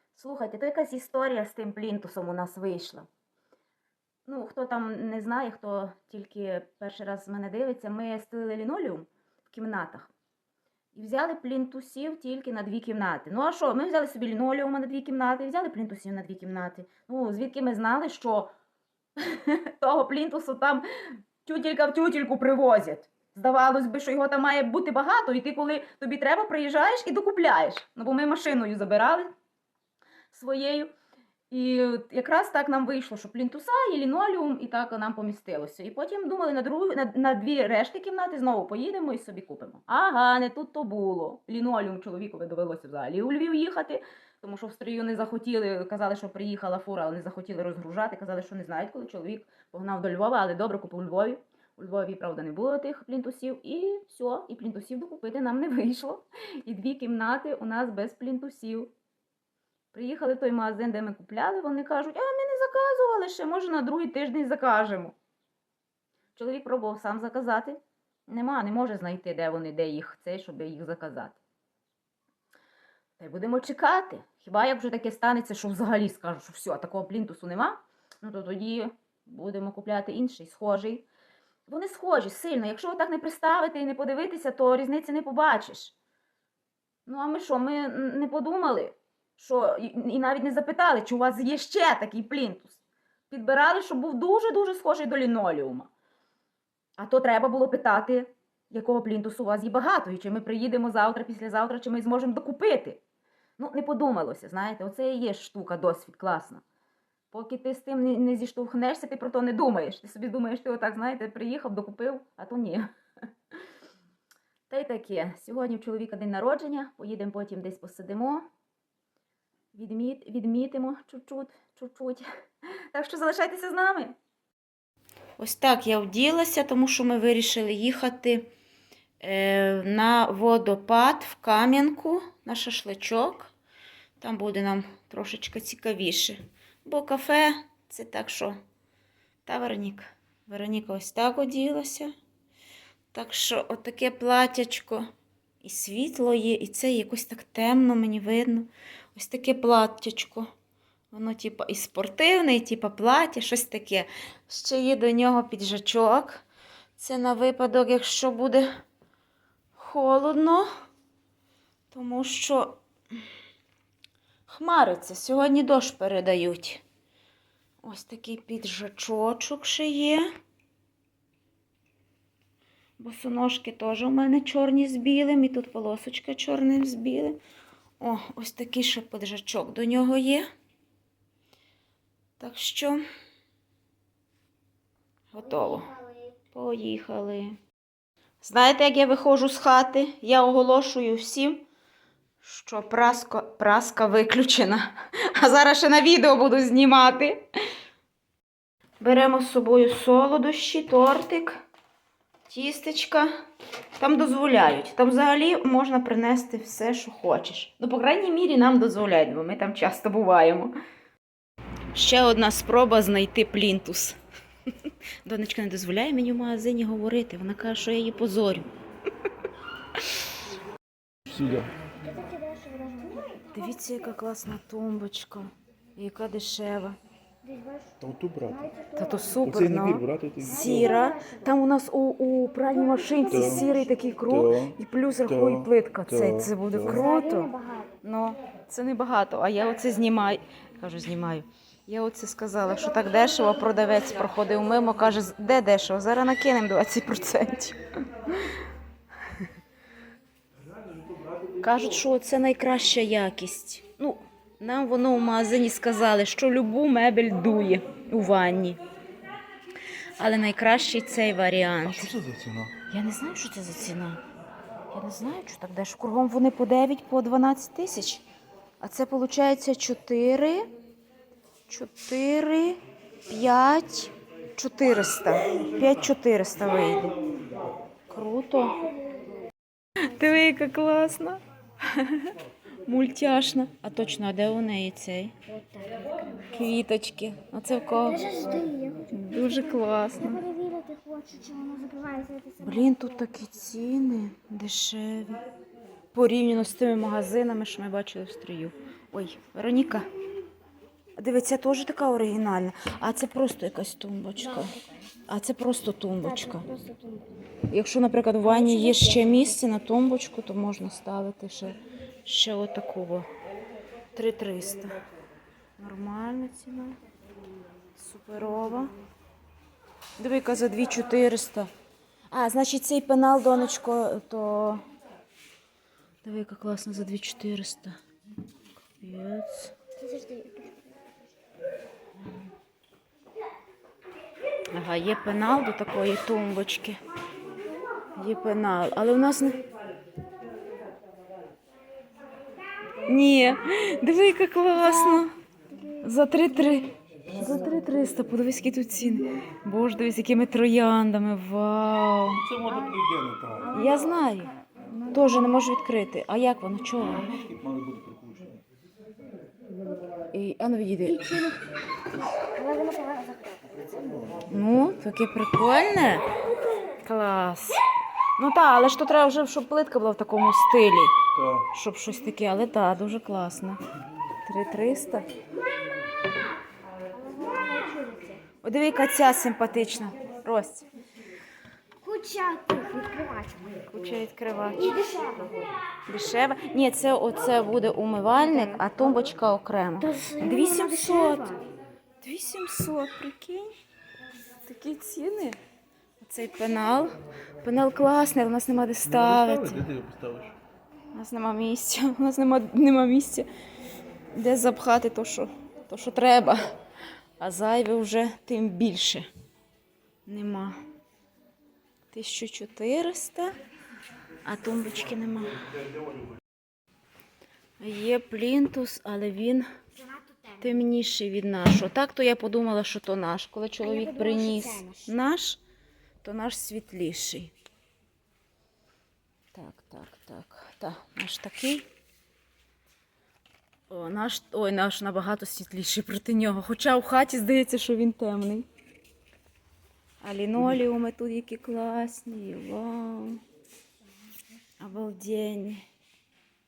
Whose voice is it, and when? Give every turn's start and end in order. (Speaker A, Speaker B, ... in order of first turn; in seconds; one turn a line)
Speaker A: 0.1-3.1
Speaker A: 4.3-10.1
Speaker A: 10.9-18.5
Speaker A: 19.2-29.3
Speaker A: 30.3-30.9
Speaker A: 31.5-58.9
Speaker A: 59.9-65.2
Speaker A: 66.4-71.4
Speaker A: 73.2-81.1
Speaker A: 81.7-85.9
Speaker A: 87.1-92.8
Speaker A: 93.3-95.9
Speaker A: 97.0-103.0
Speaker A: 103.6-106.6
Speaker A: 107.3-112.9
Speaker A: 114.7-118.4
Speaker A: 119.7-124.2
Speaker A: 125.4-128.5
Speaker A: 129.2-133.5
Speaker A: 134.2-138.6
Speaker A: 139.5-142.1
Speaker A: 143.1-145.1
Speaker A: 145.6-150.5
Speaker A: 151.1-156.4
Speaker A: 157.0-158.7
Speaker A: 159.8-160.7
Speaker A: 161.9-163.2
Speaker A: 164.5-166.8
Speaker A: 167.8-170.3
Speaker A: 173.0-177.4
Speaker A: 178.0-180.5
Speaker A: 182.4-183.1
Speaker A: 185.3-185.9
Speaker B: 185.4-186.3
Speaker A: 186.5-187.6
Speaker A: 188.4-191.7
Speaker A: 192.4-197.5
Speaker A: 199.0-201.6
Speaker A: 202.5-203.3
Speaker A: 204.0-210.7
Speaker A: 211.9-214.2
Speaker A: 215.2-218.7
Speaker C: 221.3-221.7
Speaker B: 222.0-223.7
Speaker A: 223.5-227.0
Speaker B: 227.4-229.3
Speaker C: 228.0-228.7
Speaker A: 228.9-237.5
Speaker C: 229.4-230.9
Speaker B: 230.4-231.5
Speaker B: 232.7-234.2
Speaker C: 233.3-233.7
Speaker C: 234.3-237.1
Speaker B: 236.8-237.9
Speaker A: 238.0-248.6
Speaker A: 251.6-258.8
Speaker A: 260.2-262.1
Speaker C: 261.9-262.7
Speaker A: 262.9-264.2
Speaker A: 264.9-268.2
Speaker A: 268.8-270.7
Speaker A: 271.7-277.2
Speaker A: 278.1-278.8
Speaker A: 280.0-282.3
Speaker A: 282.9-285.4
Speaker B: 285.5-286.5
Speaker A: 286.5-288.3
Speaker B: 287.9-292.9
Speaker A: 289.1-290.4
Speaker A: 292.6-295.4
Speaker A: 296.1-300.1
Speaker A: 301.2-304.8
Speaker B: 304.4-305.0
Speaker A: 305.3-306.7
Speaker B: 306.2-307.4
Speaker A: 307.7-313.3
Speaker B: 308.5-309.4
Speaker A: 314.1-315.0
Speaker A: 315.8-317.0
Speaker A: 318.0-318.9
Speaker A: 320.2-321.7
Speaker A: 322.3-324.8
Speaker A: 326.2-328.0
Speaker A: 329.0-329.7
Speaker B: 330.0-330.9
Speaker A: 334.7-337.0
Speaker A: 338.2-339.6
Speaker A: 343.1-345.3
Speaker B: 344.8-346.0
Speaker A: 346.0-352.4
Speaker C: 352.3-353.7
Speaker B: 353.6-355.6
Speaker A: 353.7-354.5
Speaker A: 355.1-357.3
Speaker C: 357.1-358.6
Speaker A: 360.3-361.5
Speaker B: 361.1-363.9
Speaker C: 363.9-364.4
Speaker A: 364.5-366.3
Speaker A: 367.0-367.8
Speaker A: 368.4-371.2
Speaker C: 371.3-371.7
Speaker A: 371.7-373.8
Speaker A: 374.5-375.3
Speaker B: 377.1-378.4
Speaker A: 378.6-380.9
Speaker B: 382.0-383.6
Speaker A: 383.9-384.9
Speaker B: 384.8-385.6
Speaker A: 386.1-391.6
Speaker B: 388.4-389.3
Speaker B: 390.0-391.6
Speaker A: 392.2-393.7
Speaker A: 394.7-395.6
Speaker A: 396.2-399.9
Speaker C: 399.0-400.6
Speaker A: 401.1-403.5
Speaker A: 404.3-406.8
Speaker A: 407.4-409.3
Speaker A: 410.3-410.8
Speaker A: 412.1-413.6
Speaker A: 414.4-415.6
Speaker A: 417.8-419.7
Speaker B: 420.1-420.6
Speaker A: 420.6-425.6
Speaker B: 423.8-425.1
Speaker A: 426.2-427.5
Speaker A: 429.5-431.9
Speaker A: 433.9-438.7
Speaker A: 440.2-443.4
Speaker A: 444.8-445.8